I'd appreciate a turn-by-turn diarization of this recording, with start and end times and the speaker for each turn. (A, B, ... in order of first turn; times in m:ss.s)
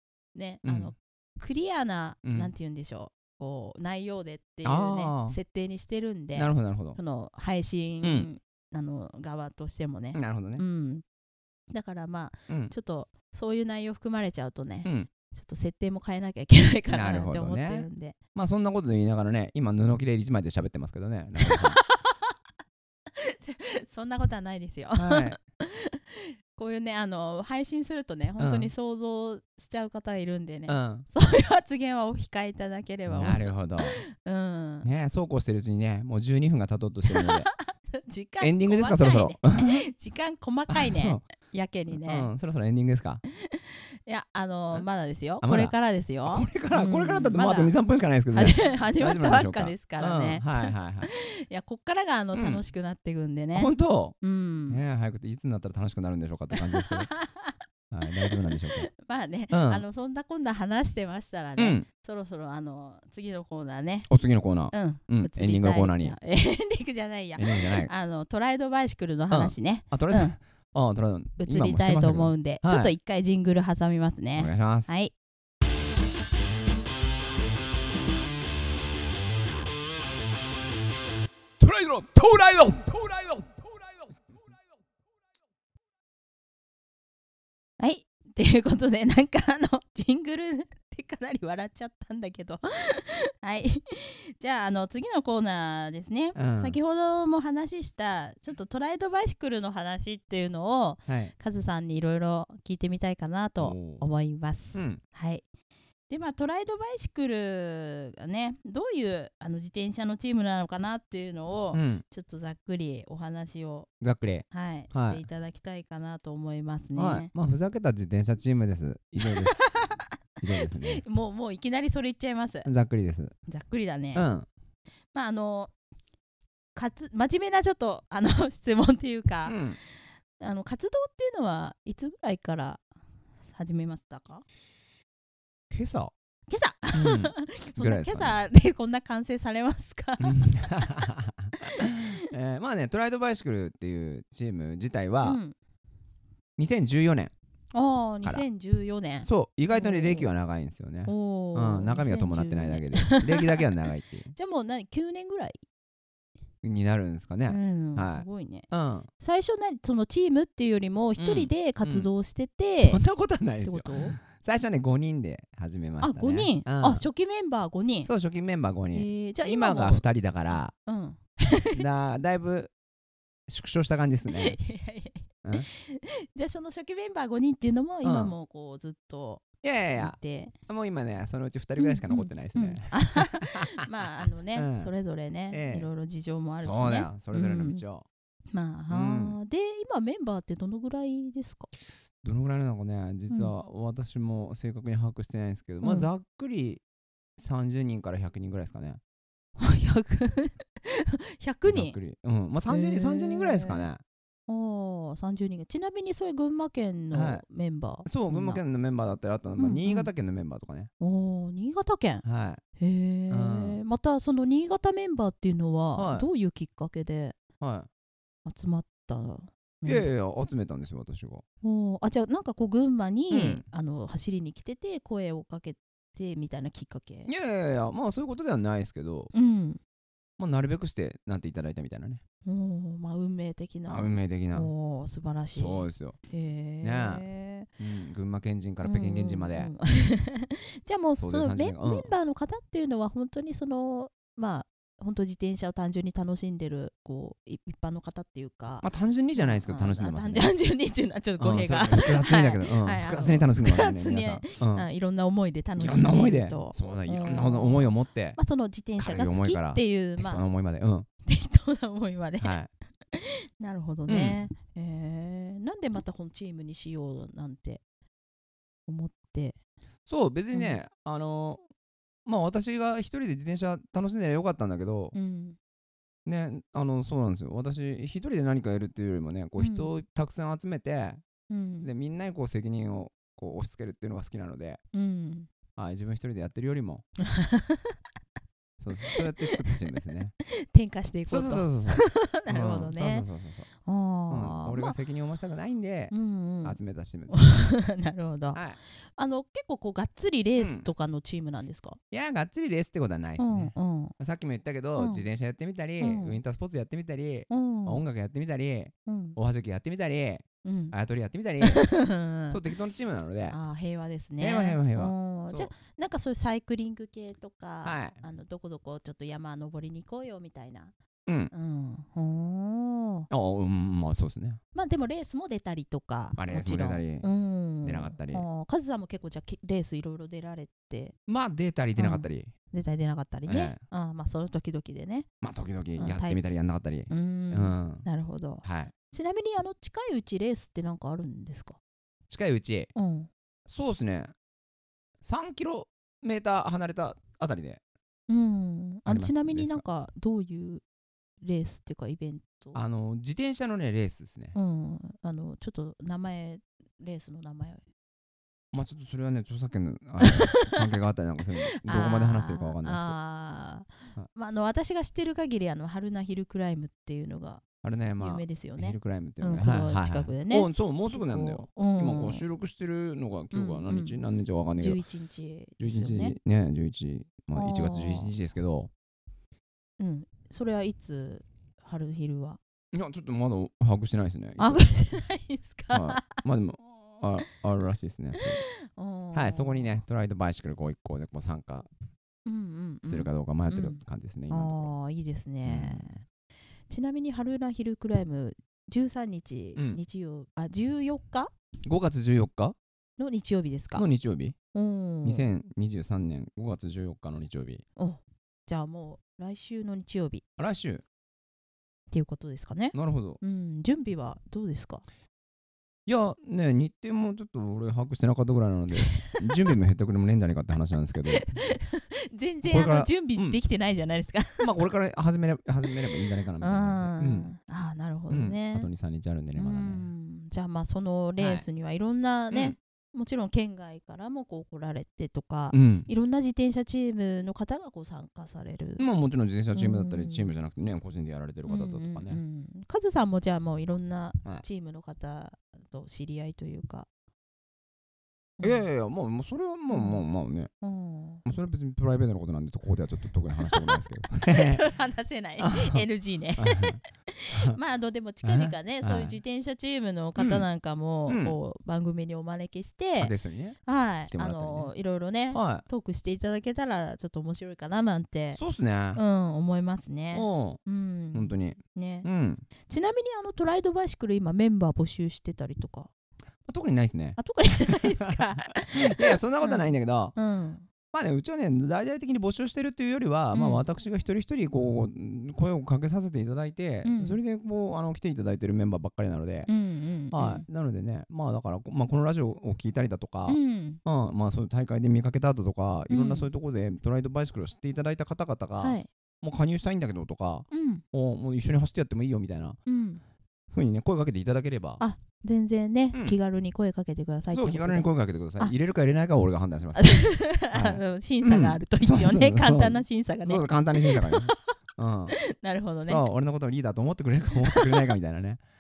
0:00.4-0:11.0 A
0:00.6-0:00.9 B
0:02.2-0:02.5 B
0:04.6-0:05.4 B
0:06.4-0:07.0 B
0:08.0-0:08.3 B
0:10.1-0:10.6 B
0:11.7-0:18.2 A
0:12.5-0:12.7 B
0:14.8-0:15.1 B
0:16.9-0:21.8 B
0:21.4-0:22.3 A
0:23.1-0:34.9 A
0:25.0-0:25.4 B
0:28.4-0:28.7 B
0:30.7-0:31.1 B
0:33.1-0:34.0 B
0:34.8-0:37.5 B
0:37.0-0:42.3 A
0:38.4-0:39.8 B
0:40.7-0:41.2 B
0:41.9-0:43.2 B
0:43.3-0:47.8 A
0:45.4-0:45.7 B
0:46.2-0:51.1 B
0:48.3-0:54.8 A
0:52.3-0:52.6 B
0:53.6-0:54.2 B
0:54.7-0:57.1 B
0:56.5-0:57.6 A
0:57.9-0:58.9 B
0:58.2-1:04.1 A
0:59.5-0:59.8 B
1:01.6-1:01.9 B
1:04.1-1:06.2 B
1:04.7-1:10.3 A
1:07.4-1:07.9 B
1:09.3-1:12.9 B
1:11.4-1:15.1 A
1:14.4-1:14.9 B
1:21.6-1:23.6 B
1:27.8-1:45.4 A
1:36.4-1:36.8 B
1:41.1-1:41.3 B
1:43.6-1:44.0 B
1:44.8-1:45.0 B
1:46.1-1:53.9 A
1:51.7-1:52.0 B
1:54.0-1:55.2 B
1:54.5-1:57.3 A
1:57.0-1:59.6 B
1:59.2-2:00.0 A
2:00.4-2:01.0 B
2:00.6-2:02.7 A
2:02.6-2:03.3 B
2:03.5-2:04.3 A
2:04.1-2:04.5 B
2:05.1-2:05.7 A
2:06.8-2:09.7 A
2:09.5-2:09.8 B
2:10.4-2:12.8 A
2:13.5-2:14.4 A
2:15.7-2:16.1 B
2:16.5-2:22.2 A
2:16.9-2:18.4 B
2:20.2-2:25.4 B
2:25.2-2:25.6 A
2:26.6-2:27.3 B
2:27.7-2:30.3 A
2:29.2-2:34.3 B
2:31.1-2:33.7 A
2:34.3-2:35.6 A
2:36.6-2:39.1 B
2:37.5-2:38.7 A
2:39.2-2:43.0 A
2:41.2-2:42.1 B
2:42.8-2:47.0 B
2:43.6-2:44.2 A
2:46.0-2:48.1 A
2:48.1-2:50.7 B
2:48.9-2:50.1 A
2:50.9-2:51.8 A
2:51.7-2:52.7 B
2:53.5-2:54.6 B
2:54.3-2:59.4 A
2:58.0-2:58.4 B
2:59.6-3:00.2 B
3:00.0-3:00.6 A
3:00.7-3:03.8 B
3:01.8-3:07.8 A
3:04.5-3:04.9 B
3:05.5-3:05.9 B
3:06.6-3:08.0 B
3:08.5-3:11.7 A
3:08.9-3:09.4 B
3:12.2-3:16.8 B
3:15.8-3:16.1 A
3:17.4-3:19.0 B
3:19.6-3:22.0 A
3:21.7-3:24.0 B
3:22.7-3:23.9 A
3:24.5-3:28.6 A
3:27.1-3:27.4 B
3:28.0-3:30.9 B
3:29.6-3:30.1 A
3:31.0-3:32.2 A
3:32.2-3:32.6 B
3:32.8-3:37.4 A
3:33.3-3:33.8 B
3:36.0-3:36.3 B
3:37.6-3:37.9 B
3:38.4-3:40.1 A
3:39.9-3:41.4 B
3:41.6-3:47.3 A
3:43.3-3:43.6 B
3:47.3-3:49.3 B
3:49.3-3:49.8 A
3:50.4-3:52.2 B
3:52.4-3:57.7 A
3:53.9-3:54.7 B
3:55.6-3:56.2 B
3:56.8-3:57.2 B
3:57.8-3:59.7 B
3:58.8-4:20.4 A
4:01.2-4:02.1 B
4:08.8-4:10.5 B
4:11.4-4:14.9 B
4:15.8-4:18.4 B
4:19.0-4:21.1 B
4:21.2-4:22.6 A
4:22.4-4:22.7 B
4:23.1-4:27.8 A
4:24.1-4:24.4 B
4:28.9-4:29.6 A
4:30.1-4:31.6 B
4:30.5-4:30.8 A
4:32.3-4:35.2 B
4:35.1-4:35.6 A
4:36.3-4:41.2 B
4:39.6-4:39.9 A
4:41.5-4:41.9 A
4:41.8-4:44.8 B
4:44.9-4:45.5 A
4:45.8-4:47.0 B
4:47.2-4:48.0 A
4:48.8-4:50.3 B
4:49.0-4:49.8 A
4:50.5-4:53.3 A
4:51.3-4:53.7 B
4:53.8-4:55.0 A
4:54.3-4:57.8 B
4:56.1-4:56.8 A
4:57.3-5:02.0 A
4:58.5-4:58.8 B
5:00.6-5:00.9 B
5:02.1-5:11.9 B
5:03.4-5:04.1 A
5:05.0-5:05.2 A
5:06.0-5:06.4 A
5:07.5-5:08.0 A
5:09.1-5:09.4 A
5:10.6-5:11.0 A
5:11.6-5:12.6 A
5:12.5-5:13.6 B
5:13.5-5:20.9 A
5:14.4-5:15.7 B
5:17.8-5:18.2 B
5:21.3-5:21.5 B
5:21.5-5:23.3 A
5:23.3-5:24.6 B
5:24.7-5:31.2 A
5:26.4-5:27.3 B
5:27.8-5:28.4 B
5:31.3-5:32.5 B
5:32.0-5:35.3 A
5:33.5-5:33.8 B
5:35.4-5:38.1 B
5:36.0-5:36.4 A
5:37.1-5:41.8 A
5:38.6-5:38.9 B
5:42.3-5:42.9 B
5:43.0-5:43.3 A
5:43.7-5:44.3 B
5:45.2-5:47.8 B
5:48.3-5:50.8 A
5:49.1-5:49.8 B
5:51.4-5:52.8 A
5:52.8-5:54.6 B
5:54.6-5:57.8 A
5:58.7-6:03.2 B
6:00.2-6:00.9 A
6:01.7-6:07.6 A
6:07.8-6:15.0 B
6:08.2-6:12.4 A
6:13.5-6:14.2 A
6:14.8-6:16.4 A
6:15.8-6:18.9 B
6:17.5-6:18.3 A
6:20.0-6:22.6 A
6:22.9-6:24.8 B
6:24.6-6:26.4 A
6:25.9-6:28.6 B
6:28.4-6:30.0 A
6:29.3-6:31.9 B
6:32.5-6:36.2 A
6:33.0-6:34.9 B
6:35.7-6:36.2 B
6:36.9-6:41.5 A
6:41.8-6:42.8 B
6:43.2-6:44.0 A
6:44.0-6:44.6 B
6:44.7-6:45.5 A
6:45.2-6:47.8 B
6:48.0-6:50.4 A
6:50.6-6:51.0 B
6:52.1-6:55.0 A
6:52.9-6:53.4 B
6:56.1-7:01.5 B
6:59.0-6:59.4 A
7:01.3-7:04.7 A
7:02.7-7:03.6 B
7:04.6-7:07.5 B
7:06.6-7:08.9 A
7:08.3-7:10.1 B
7:09.6-7:19.0 A
7:11.4-7:11.6 B
7:12.5-7:12.8 B
7:15.7-7:16.1 B
7:19.0-7:22.4 B
7:19.7-7:20.5 A
7:21.7-7:27.1 A
7:28.6-7:28.9 A
7:28.6-7:30.7 B
7:29.9-7:30.2 A
7:30.8-7:31.4 A
7:31.4-7:34.9 B
7:33.7-7:43.3 A
7:35.6-7:36.1 B
7:36.6-7:37.8 B
7:38.4-7:39.4 B
7:40.4-7:40.7 B
7:41.3-7:41.6 B
7:43.2-7:43.8 B
7:43.9-7:48.6 A
7:44.3-7:44.9 B
7:45.5-7:45.8 B
7:48.6-7:49.2 B
7:49.2-7:52.3 A
7:50.3-7:50.8 B
7:51.3-7:52.6 B
7:52.9-7:56.1 A
7:56.7-7:58.4 B
7:57.4-8:00.9 A
7:58.9-8:00.4 B
8:01.1-8:09.7 B
8:03.5-8:03.8 A
8:07.0-8:07.4 A
8:09.7-8:10.7 A
8:10.3-8:22.8 B
8:13.5-8:14.0 A
8:16.1-8:16.5 A
8:18.8-8:19.1 A
8:20.7-8:21.0 A
8:22.9-8:23.2 A
8:23.7-8:25.0 B
8:25.0-8:28.1 A
8:27.5-8:35.4 B
8:30.0-8:34.7 A
8:35.4-8:36.3 A
8:36.1-8:38.6 B
8:37.7-8:38.1 A